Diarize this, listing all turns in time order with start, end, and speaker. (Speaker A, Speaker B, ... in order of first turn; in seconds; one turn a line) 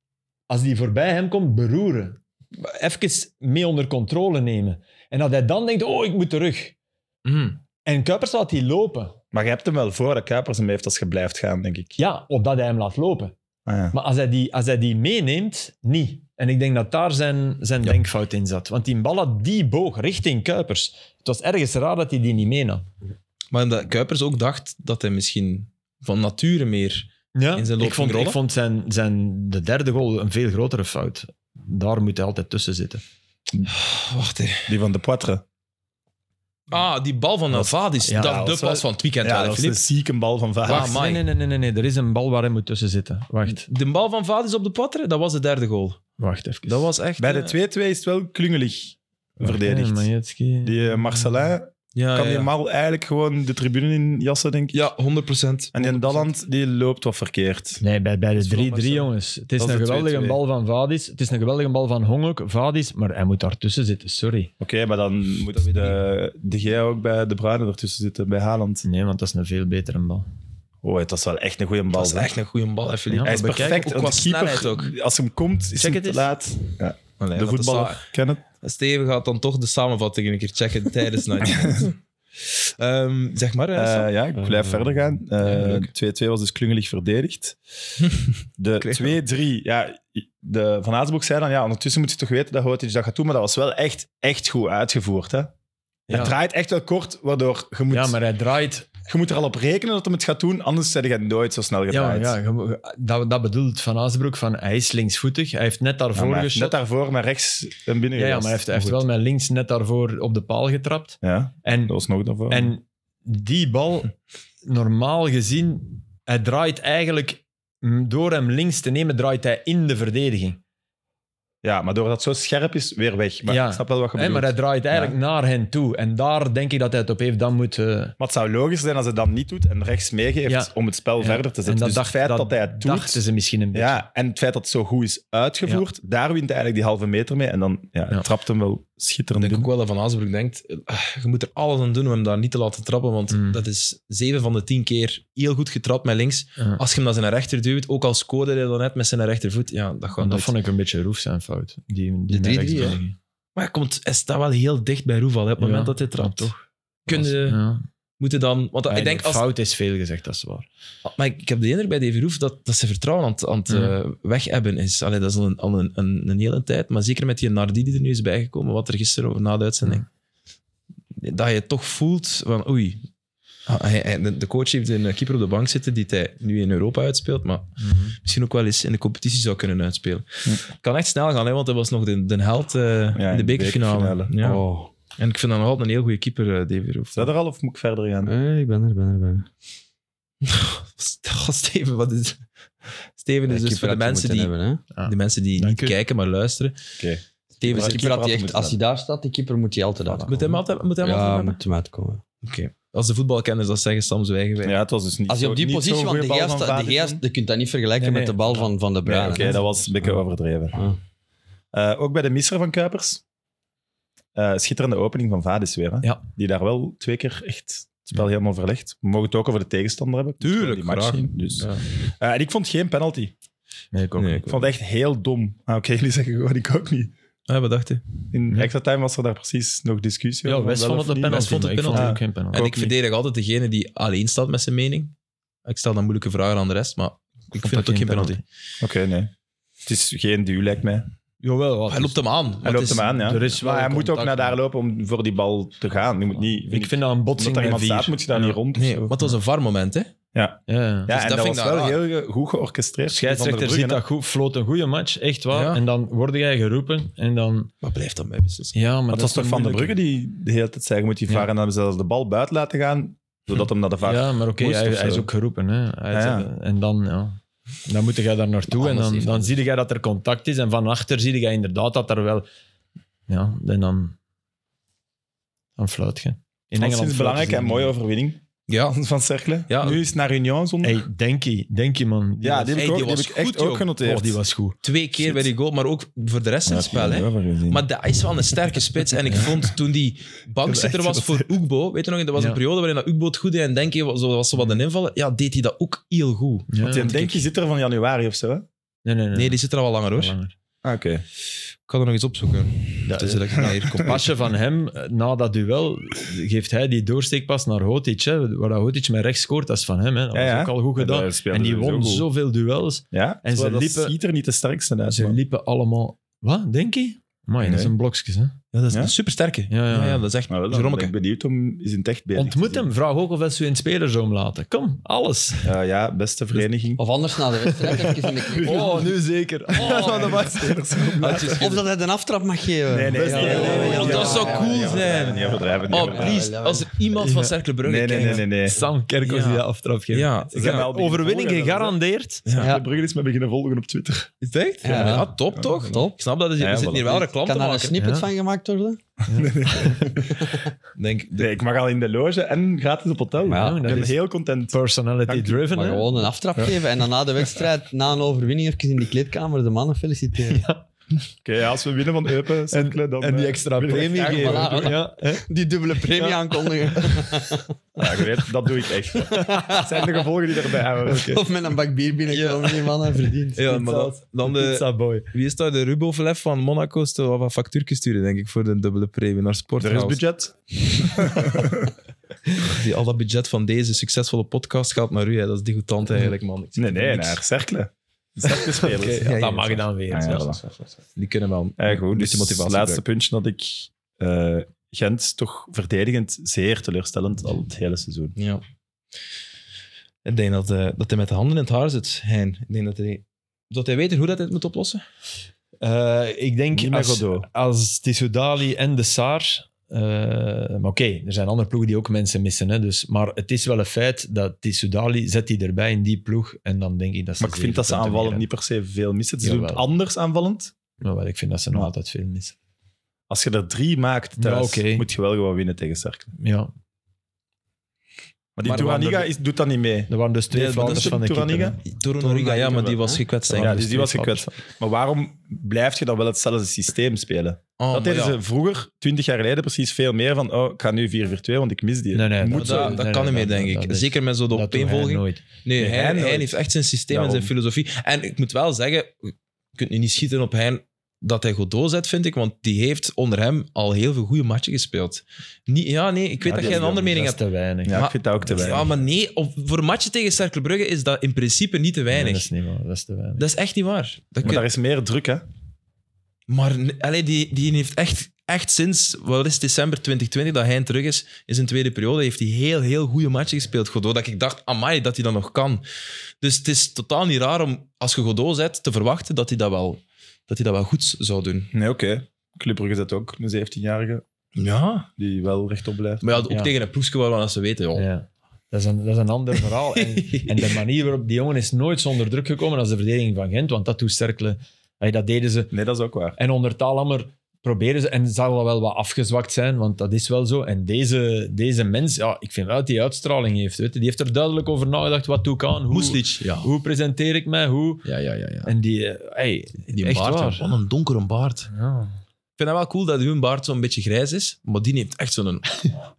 Speaker A: 0.5-6.7
Speaker B: 7.2-7.6
Speaker A: 7.8-9.2
Speaker C: 9.3-12.0
Speaker A: 12.0-13.3
Speaker C: 13.7-13.9
Speaker A: 13.9-22.8
Speaker B: 23.5-28.4
Speaker A: 27.3-33.0
Speaker B: 33.7-34.7
Speaker C: 34.7-35.4
Speaker B: 36.7-39.8
Speaker C: 37.5-41.0
Speaker A: 38.1-38.4
Speaker B: 40.6-41.2
Speaker A: 40.6-43.6
Speaker B: 43.5-46.0
Speaker A: 46.2-46.8
Speaker B: 46.6-47.5
Speaker C: 47.2-50.1
Speaker A: 49.4-51.3
Speaker C: 50.6-54.8
Speaker B: 51.9-52.5
Speaker B: 54.7-56.3
Speaker C: 55.7-57.8
Speaker A: 57.8-64.5
Speaker B: 58.4-60.4
Speaker C: 64.6-68.8
Speaker B: 65.5-66.0
Speaker A: 68.8-70.3
Speaker C: 70.8-72.3
Speaker B: 71.9-74.9
Speaker A: 73.1-73.8
Speaker C: 73.2-78.4
Speaker A: 75.8-76.3
Speaker B: 77.2-78.0
Speaker B: 78.6-82.0
Speaker C: 81.5-81.8
Speaker B: 82.5-84.1
Speaker C: 83.7-87.5
Speaker B: 85.4-85.9
Speaker C: 88.6-95.5
Speaker B: 88.8-89.2
Speaker A: 96.1-96.3
Speaker C: 96.1-98.2
Speaker A: 97.9-98.9
Speaker C: 99.1-102.3
Speaker A: 101.9-106.7
Speaker C: 106.1-109.0
Speaker A: 108.2-111.9
Speaker C: 111.2-112.7
Speaker A: 112.5-114.1
Speaker A: 114.6-120.6
Speaker C: 121.6-125.2
Speaker A: 123.5-128.1
Speaker C: 128.2-133.2
Speaker A: 130.5-134.0
Speaker C: 133.7-139.7
Speaker B: 139.4-150.5
Speaker A: 143.3-143.6
Speaker A: 150.2-153.2
Speaker D: 152.3-153.0
Speaker B: 153.6-157.6
Speaker A: 155.6-156.5
Speaker A: 157.1-157.8
Speaker B: 158.2-159.5
Speaker A: 158.9-160.7
Speaker B: 161.0-170.0
Speaker A: 163.7-163.9
Speaker B: 171.2-173.1
Speaker B: 173.7-184.6
Speaker A: 177.8-178.2
Speaker C: 183.1-184.3
Speaker D: 184.4-184.9
Speaker B: 185.2-187.3
Speaker C: 187.1-188.3
Speaker D: 188.2-189.5
Speaker B: 190.4-196.8
Speaker D: 193.5-194.8
Speaker A: 194.9-195.9
Speaker C: 197.0-198.8
Speaker B: 197.6-198.0
Speaker D: 197.6-202.2
Speaker A: 200.1-200.3
Speaker B: 200.3-201.6
Speaker B: 202.4-204.8
Speaker C: 204.6-207.2
Speaker D: 205.3-209.7
Speaker A: 208.0-208.7
Speaker C: 209.0-210.8
Speaker C: 211.7-213.2
Speaker C: 214.3-223.3
Speaker B: 220.4-221.8
Speaker A: 223.9-224.5
Speaker B: 224.2-224.6
Speaker C: 224.5-227.1
Speaker B: 227.5-228.1
Speaker C: 228.3-232.2
Speaker A: 230.4-232.9
Speaker B: 231.3-235.1
Speaker B: 235.6-238.4
Speaker A: 237.6-238.4
Speaker C: 238.8-239.3
Speaker C: 239.8-241.1
Speaker A: 241.4-242.2
Speaker B: 241.9-243.1
Speaker C: 242.6-249.1
Speaker A: 243.1-244.5
Speaker A: 246.7-248.6
Speaker B: 248.7-250.1
Speaker C: 250.3-254.0
Speaker A: 250.7-251.1
Speaker B: 251.1-252.0
Speaker A: 253.1-257.7
Speaker B: 255.5-255.8
Speaker B: 257.8-258.7
Speaker A: 258.7-259.9
Speaker C: 259.1-265.3
Speaker A: 264.0-272.4
Speaker C: 266.1-266.5
Speaker D: 268.8-269.5
Speaker A: 273.3-274.1
Speaker A: 275.8-277.9
Speaker C: 276.8-281.0
Speaker B: 278.7-278.9
Speaker B: 279.7-280.0
Speaker A: 280.8-282.8
Speaker C: 282.4-284.4
Speaker B: 282.8-283.9
Speaker A: 284.0-284.8
Speaker B: 284.8-297.4
Speaker C: 286.7-287.8
Speaker C: 290.6-291.5
Speaker A: 296.7-297.1
Speaker C: 296.8-298.6
Speaker A: 299.0-299.6
Speaker B: 299.3-300.3
Speaker A: 300.2-300.5
Speaker C: 300.8-301.2
Speaker B: 301.9-304.3
Speaker A: 303.1-314.1
Speaker C: 310.3-312.3
Speaker C: 313.1-315.4
Speaker A: 315.1-318.6
Speaker C: 317.6-317.9
Speaker B: 318.7-321.1
Speaker A: 319.7-320.2
Speaker C: 320.5-322.9
Speaker A: 322.4-325.7
Speaker C: 325.6-327.0
Speaker D: 327.0-329.1
Speaker A: 327.9-330.7
Speaker C: 328.5-329.1
Speaker B: 329.7-331.8
Speaker C: 329.8-331.8
Speaker D: 331.6-336.9
Speaker C: 332.9-336.5
Speaker A: 333.1-335.6
Speaker B: 333.4-335.3
Speaker B: 335.9-338.5
Speaker A: 337.2-337.5
Speaker C: 337.8-338.8
Speaker A: 338.1-342.4
Speaker B: 339.2-340.9
Speaker C: 340.5-341.9
Speaker B: 342.4-342.7
Speaker C: 342.5-344.3
Speaker D: 342.6-342.9
Speaker B: 344.4-348.0
Speaker D: 344.8-346.2
Speaker C: 344.9-345.9
Speaker C: 346.6-347.2
Speaker D: 347.1-349.0
Speaker A: 348.0-348.3
Speaker A: 349.3-349.6
Speaker C: 349.3-350.4
Speaker D: 349.7-350.7
Speaker B: 351.0-351.5
Speaker C: 351.4-355.6
Speaker D: 353.4-354.1
Speaker A: 353.6-354.2
Speaker A: 354.7-356.2
Speaker D: 355.7-360.7
Speaker A: 360.5-360.8
Speaker C: 361.4-365.0
Speaker A: 362.7-365.4
Speaker D: 363.9-367.7
Speaker A: 366.1-367.3
Speaker C: 368.0-371.4
Speaker D: 369.1-370.2
Speaker D: 371.1-373.6
Speaker A: 372.3-372.9
Speaker A: 373.6-375.3
Speaker B: 373.6-380.2
Speaker C: 379.8-381.9
Speaker B: 382.6-387.4
Speaker C: 386.8-389.4
Speaker A: 388.4-390.9
Speaker B: 388.9-389.8
Speaker C: 390.1-390.6
Speaker B: 391.1-393.0
Speaker C: 391.8-398.4
Speaker B: 398.4-398.6
Speaker B: 400.2-405.0
Speaker A: 405.8-418.4
Speaker C: 406.7-407.5
Speaker C: 417.4-420.7
Speaker A: 419.4-419.8
Speaker A: 421.0-422.5
Speaker C: 423.3-426.3
Speaker A: 424.4-425.1
Speaker A: 426.4-426.7
Speaker C: 428.6-431.8
Speaker B: 428.6-429.3
Speaker A: 430.1-431.8
Speaker B: 430.6-431.1
Speaker B: 431.8-433.8
Speaker D: 432.2-433.2
Speaker A: 433.5-434.5
Speaker C: 433.5-443.0
Speaker B: 437.8-438.4
Speaker A: 442.1-445.4
Speaker B: 442.5-462.5
Speaker C: 445.8-446.6
Speaker C: 447.1-447.5
Speaker C: 456.4-457.1
Speaker A: 456.5-458.8
Speaker C: 457.8-459.0
Speaker A: 462.1-463.4
Speaker B: 463.4-464.6
Speaker C: 464.4-465.4
Speaker B: 466.5-475.8
Speaker B: 476.4-481.7
Speaker C: 481.7-484.2
Speaker B: 484.6-485.1
Speaker C: 485.2-486.2
Speaker B: 486.2-488.1
Speaker A: 486.5-486.7
Speaker A: 487.9-495.7
Speaker B: 489.9-490.7
Speaker C: 495.7-496.4
Speaker A: 496.4-508.1
Speaker B: 505.9-506.7
Speaker B: 508.0-508.7
Speaker A: 508.6-510.7
Speaker B: 509.9-511.7
Speaker A: 511.7-512.2
Speaker B: 512.6-515.9